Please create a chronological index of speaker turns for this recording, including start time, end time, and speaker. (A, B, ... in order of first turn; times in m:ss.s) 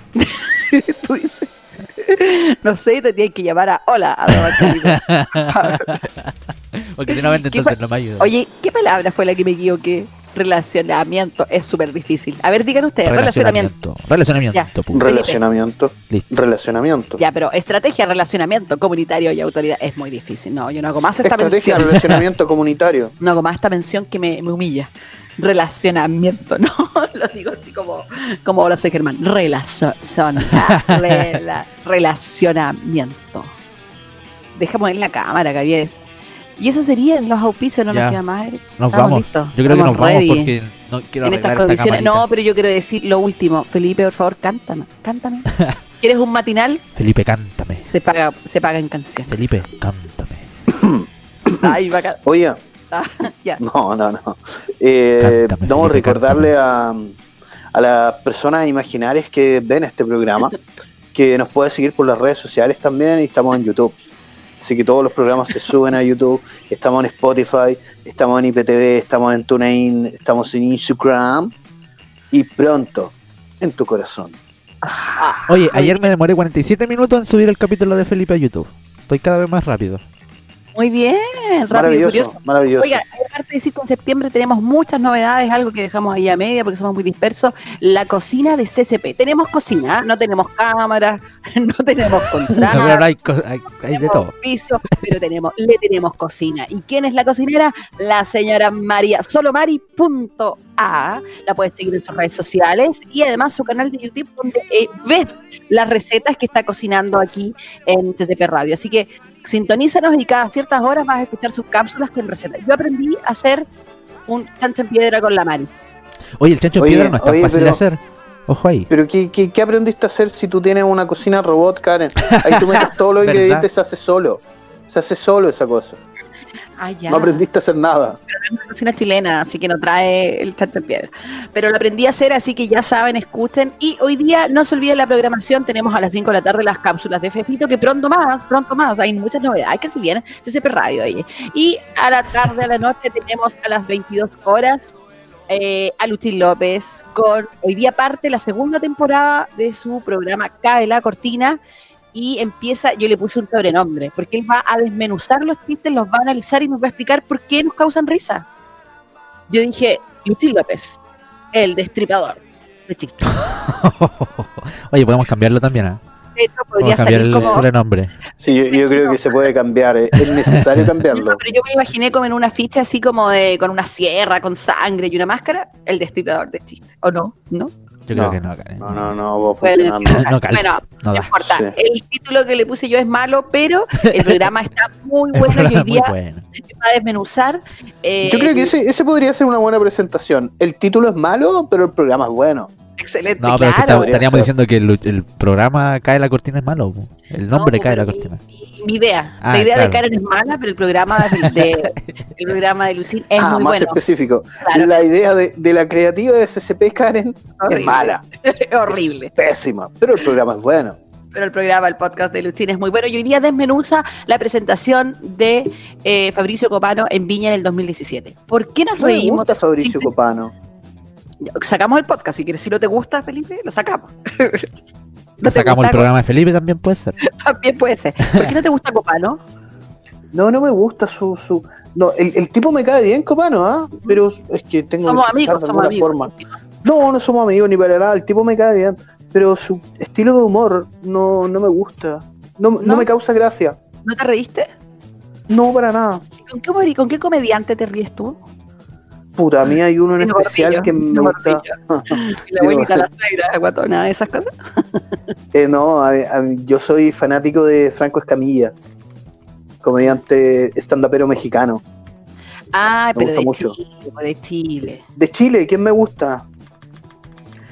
0:00.2-0:06.1 A
0:04.3-0:08.3 B
0:07.1-0:13.7 A
0:13.0-0:15.0 B
0:14.5-0:15.4 A
0:14.9-0:17.2 C
0:16.1-0:16.4 B
0:17.2-0:22.0 A
0:21.2-0:23.1 C
0:23.2-0:33.5 A
0:30.4-0:31.4 B
0:34.6-0:36.0 A
0:36.6-0:40.5 A
0:37.9-0:38.2 B
0:38.8-0:42.2 B
0:41.2-0:45.5 A
0:46.0-0:46.8 A
0:46.9-0:47.9 B
0:47.8-0:49.5 A
0:49.3-0:50.5 B
0:50.7-0:51.7 C
0:51.5-0:52.2 A
0:52.2-0:52.6 C
0:52.9-0:53.6 A
0:53.6-0:57.1 C
0:55.2-0:56.5 B
0:57.7-1:00.6 C
1:01.1-1:03.9 C
1:04.6-1:11.5 C
1:12.3-1:14.4 C
1:14.8-1:16.0 A
1:15.5-1:20.0 B
1:20.7-1:33.1 A
1:21.7-1:23.0 C
1:32.5-1:34.3 B
1:33.9-1:53.6 A
1:54.3-1:55.7 A
1:56.4-1:58.9 B
1:56.8-1:57.8 C
1:58.9-2:06.0 C
2:02.3-2:03.6 B
2:06.8-2:07.4 A
2:07.1-2:08.2 C
2:08.3-2:24.9 A
2:25.5-2:31.6 A
2:32.1-2:38.4 A
2:39.5-2:41.0 A
2:41.5-2:43.4 A
2:43.2-2:46.0 B
2:46.4-2:47.7 A
2:46.8-2:48.1 B
2:48.4-2:51.4 C
2:48.7-2:49.4 A
2:50.5-2:50.9 B
2:51.1-2:57.7 A
2:58.1-2:59.1 B
2:58.1-3:00.3 C
2:59.6-3:08.7 A
3:00.0-3:01.3 B
3:01.4-3:01.7 C
3:04.0-3:04.5 B
3:05.3-3:06.4 B
3:08.2-3:12.7 C
3:13.0-3:14.1 A
3:13.4-3:18.4 B
3:13.9-3:14.5 C
3:17.5-3:24.0 A
3:19.4-3:20.0 B
3:21.2-3:21.9 B
3:23.4-3:28.2 C
3:24.6-3:25.0 A
3:27.6-3:29.3 A
3:28.9-3:31.0 C
3:31.3-3:40.1 A
3:39.0-3:40.5 C
3:41.4-3:44.7 A
3:45.4-3:46.1 A
3:45.4-3:47.1 B
3:47.2-3:49.4 A
3:50.3-3:56.3 C
3:55.0-3:56.5 A
3:56.8-4:03.8 C
4:02.8-4:03.1 A
4:04.0-4:04.7 A
4:05.5-4:06.2 C
4:06.4-4:08.4 A
4:09.4-4:13.0 C
4:10.2-4:15.2 A
4:15.5-4:18.7 C
4:19.8-4:21.8 C
4:22.7-4:25.0 A
4:23.2-4:23.7 C
4:25.2-4:26.4 C